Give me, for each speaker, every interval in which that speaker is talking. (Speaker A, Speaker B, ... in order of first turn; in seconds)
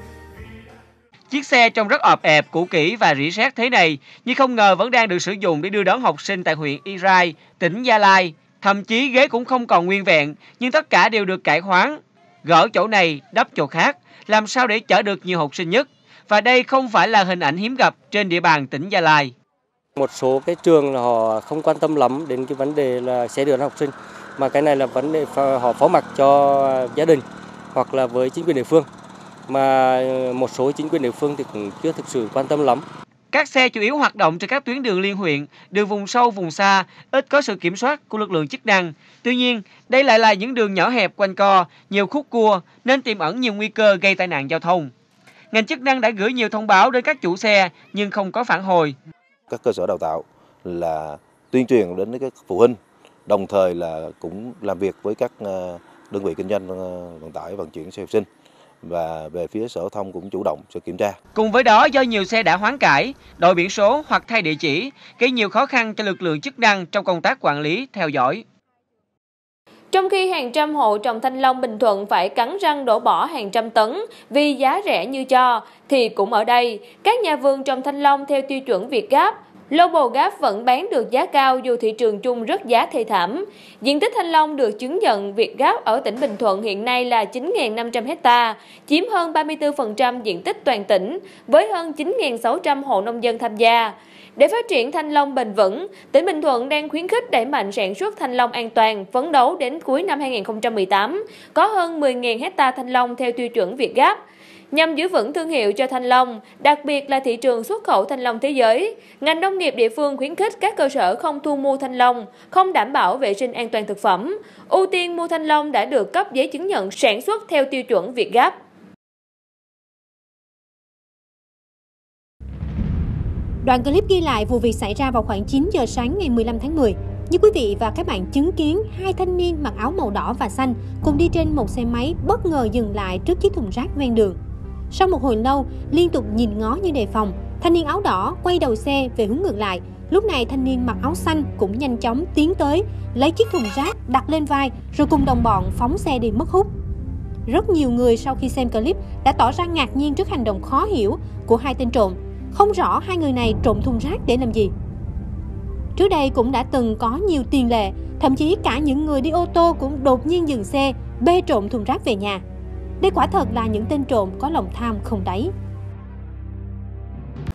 Speaker A: 1.3-19.3, 33.3-44.9, 45.5-49.0, 61.4-68.4
Speaker B: 20.0-28.9, 29.5-32.9
Speaker C: 49.5-58.3, 58.8-61.2
Speaker D: 69.9-104.2, 104.7-118.5
Speaker E: 123.6-134.4, 134.9-146.7, 147.5-154.7, 156.0-162.4, 163.0-165.5